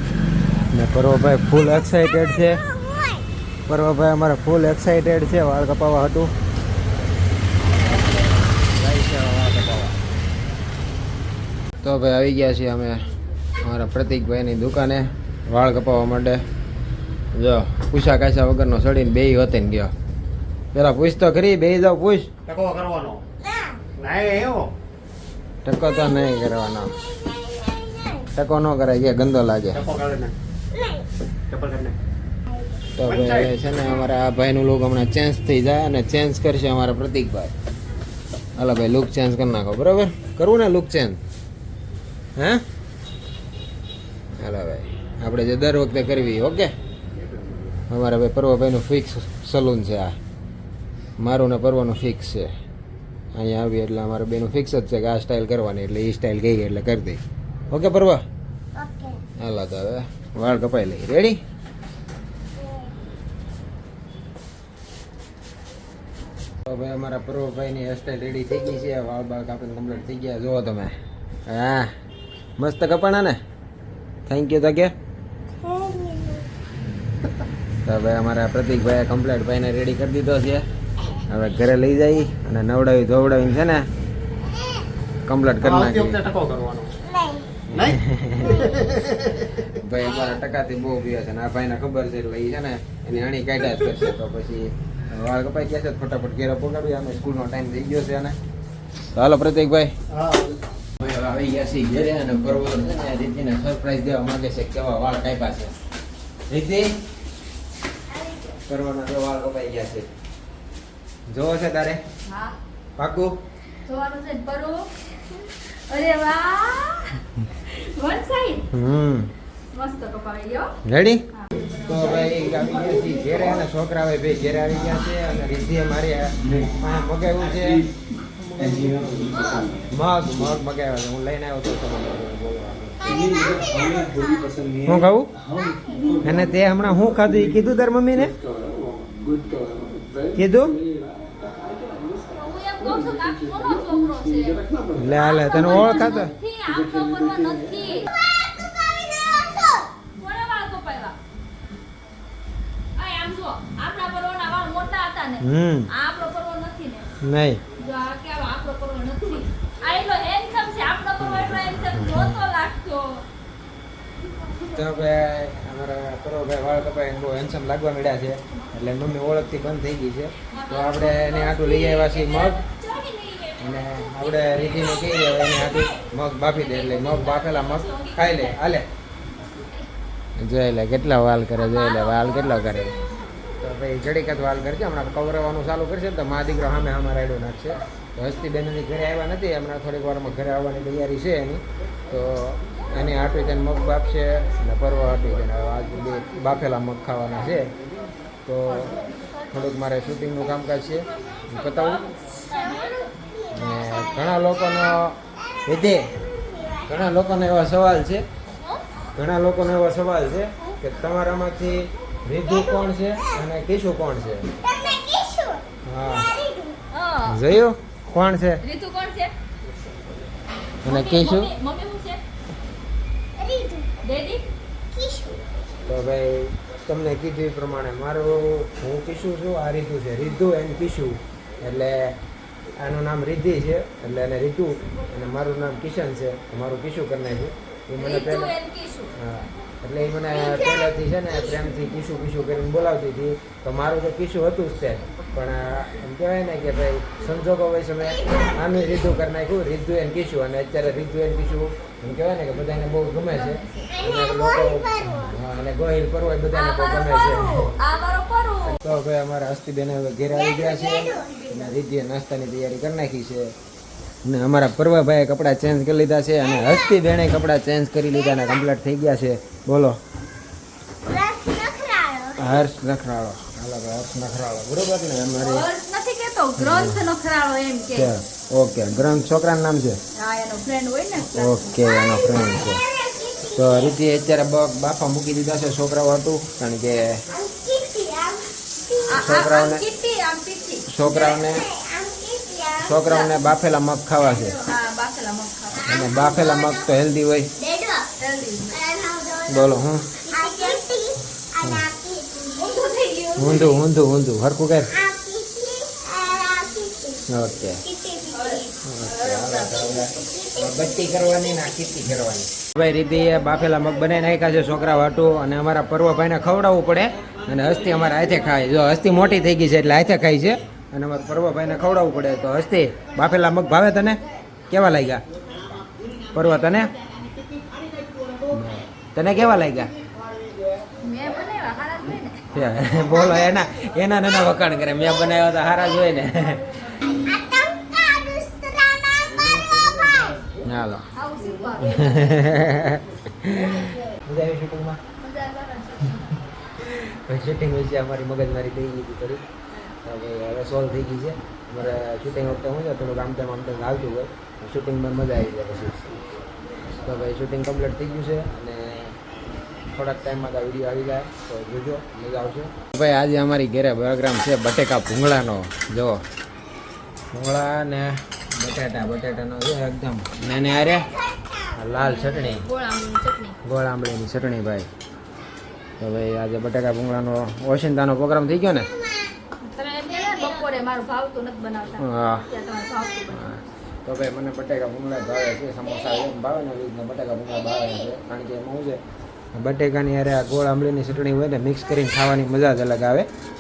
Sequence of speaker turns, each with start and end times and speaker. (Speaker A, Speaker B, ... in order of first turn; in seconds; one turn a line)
Speaker A: 0.7-2.6
Speaker B: 2.9-3.2
Speaker A: 3.7-6.3
Speaker A: 7.9-10.0
Speaker A: 11.8-13.0
Speaker A: 13.6-16.4
Speaker A: 17.3-19.9
Speaker A: 20.7-22.3
Speaker C: 22.5-23.2
Speaker B: 23.5-23.8
Speaker C: 23.9-24.7
Speaker A: 25.6-26.9
Speaker B: 27.2-28.3
Speaker A: 28.3-29.9
Speaker C: 29.7-30.3
Speaker B: 30.7-31.1
Speaker C: 31.5-32.0
Speaker A: 33.0-37.5
Speaker C: 33.0-33.5
Speaker A: 38.6-41.2
Speaker A: 42.4-42.6
Speaker A: 44.4-46.7
Speaker A: 47.9-50.2
Speaker A: 51.2-52.5
Speaker A: 53.4-58.2
Speaker B: 58.8-59.2
Speaker A: 59.4-61.4
Speaker B: 62.5-62.9
Speaker A: 66.7-70.9
Speaker A: 71.5-71.9
Speaker A: 72.6-73.4
Speaker A: 74.3-74.9
Speaker B: 75.6-76.5
Speaker A: 77.8-80.7
Speaker A: 81.2-83.9
Speaker A: 85.3-86.3
Speaker C: 85.6-87.0
Speaker B: 87.1-87.6
Speaker A: 87.7-98.4
Speaker C: 88.7-89.3
Speaker A: 99.1-100.0
Speaker C: 100.1-100.6
Speaker A: 101.0-105.7
Speaker A: 106.5-106.9
Speaker A: 108.7-110.1
Speaker A: 111.3-112.0
Speaker D: 112.3-112.6
Speaker A: 113.0-113.4
Speaker D: 113.8-118.7
Speaker A: 118.7-119.3
Speaker D: 119.7-120.8
Speaker A: 120.8-121.2
Speaker D: 121.3-121.8
Speaker A: 121.8-127.9
Speaker C: 128.4-129.9
Speaker A: 129.9-133.4
Speaker C: 133.1-137.5
Speaker B: 133.2-134.7
Speaker A: 134.8-135.3
Speaker B: 135.5-136.2
Speaker A: 136.2-138.3
Speaker C: 138.4-142.3
Speaker A: 140.3-140.8
Speaker D: 142.3-148.1
Speaker C: 142.8-145.8
Speaker A: 144.9-146.3
Speaker C: 146.7-147.8
Speaker B: 149.2-149.9
Speaker D: 150.2-151.2
Speaker D: 153.0-157.1
Speaker A: 155.4-155.9
Speaker A: 157.2-157.6
Speaker D: 157.8-163.3
Speaker A: 161.2-162.4
Speaker D: 164.3-164.8
Speaker A: 164.7-172.6
Speaker D: 170.5-178.8
Speaker A: 173.6-178.9
Speaker D: 179.3-179.9
Speaker A: 180.4-182.9
Speaker D: 181.6-183.1
Speaker A: 183.6-197.7
Speaker A: 198.5-202.1
Speaker D: 201.3-203.0
Speaker B: 202.5-204.5
Speaker A: 203.5-206.2
Speaker B: 205.5-207.0
Speaker A: 206.9-208.2
Speaker A: 209.2-214.5
Speaker B: 214.6-215.7
Speaker A: 215.8-216.3
Speaker B: 216.2-216.8
Speaker D: 216.9-217.4
Speaker A: 217.3-218.6
Speaker D: 218.6-219.3
Speaker A: 220.8-221.5
Speaker D: 220.8-222.2
Speaker B: 223.4-224.0
Speaker D: 224.0-224.4
Speaker B: 224.9-225.4
Speaker A: 225.9-232.2
Speaker A: 232.8-238.5
Speaker D: 238.0-239.1
Speaker A: 239.2-257.8
Speaker B: 248.2-248.5
Speaker D: 253.3-253.9
Speaker B: 253.9-255.3
Speaker D: 256.5-258.8
Speaker A: 258.6-263.5
Speaker B: 260.4-261.7
Speaker A: 264.2-270.0
Speaker B: 271.1-272.6
Speaker A: 272.4-275.7
Speaker D: 275.4-278.1
Speaker A: 276.6-277.1
Speaker A: 277.9-280.0
Speaker D: 280.1-281.8
Speaker A: 281.3-282.8
Speaker B: 281.9-284.0
Speaker A: 283.5-287.2
Speaker B: 287.3-289.2
Speaker D: 289.1-290.9
Speaker A: 289.2-289.8
Speaker A: 290.9-291.7
Speaker B: 291.0-293.0
Speaker A: 292.8-294.6
Speaker D: 292.9-293.4
Speaker D: 294.5-296.1
Speaker A: 295.8-297.5
Speaker B: 295.9-296.9
Speaker B: 297.6-298.1
Speaker D: 298.2-298.8
Speaker B: 298.7-299.8
Speaker A: 299.5-300.2
Speaker B: 300.3-302.9
Speaker D: 300.3-300.8
Speaker D: 302.6-303.9
Speaker A: 303.4-305.0
Speaker B: 304.9-307.3
Speaker A: 307.3-307.8
Speaker B: 307.8-308.7
Speaker D: 308.3-310.1
Speaker A: 308.8-325.2
Speaker B: 310.1-311.5
Speaker B: 313.3-313.9
Speaker A: 326.3-326.9
Speaker A: 328.5-329.9
Speaker D: 331.0-332.5
Speaker A: 332.5-337.0
Speaker B: 337.1-339.4
Speaker A: 340.6-341.1
Speaker D: 341.1-342.6
Speaker A: 341.8-345.0
Speaker D: 345.2-346.4
Speaker A: 346.8-349.4
Speaker A: 350.0-356.1
Speaker A: 356.9-359.2
Speaker A: 359.9-366.2
Speaker A: 367.3-371.1
Speaker A: 371.7-372.7
Speaker D: 372.0-373.6
Speaker A: 373.6-374.9
Speaker A: 376.0-378.9
Speaker D: 379.6-383.5
Speaker A: 382.0-382.5
Speaker A: 383.3-389.0
Speaker A: 389.5-393.3